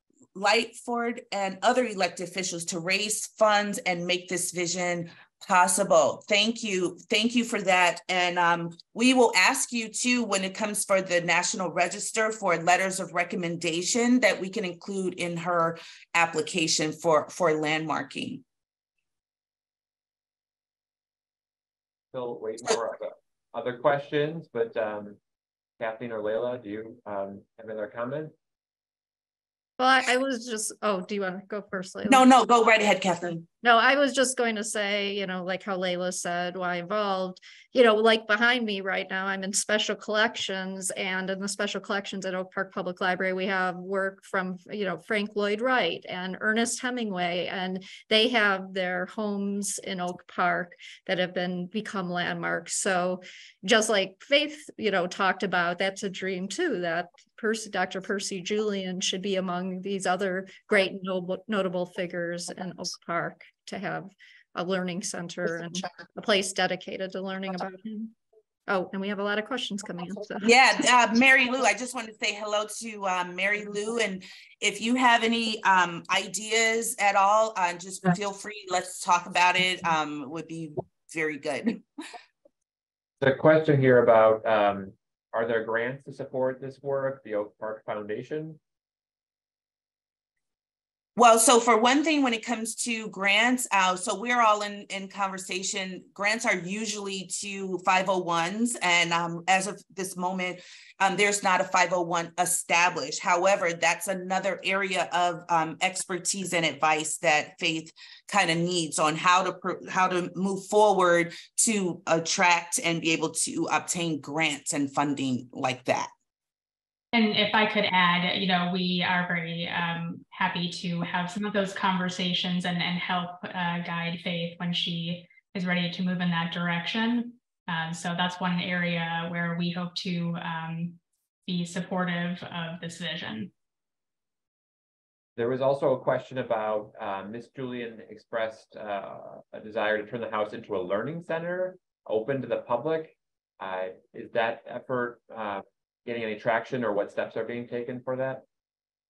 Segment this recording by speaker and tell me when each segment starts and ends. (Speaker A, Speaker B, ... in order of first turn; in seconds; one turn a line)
Speaker A: 0.3-18.4
Speaker B: 22.1-25.2
Speaker B: 25.8-28.3
Speaker C: 29.8-32.2
Speaker A: 32.1-33.5
Speaker C: 33.6-68.1
Speaker C: 68.7-70.5
Speaker A: 70.4-81.8
Speaker B: 83.2-88.6
Speaker A: 91.2-116.1
Speaker D: 117.1-133.5
Speaker B: 135.3-148.4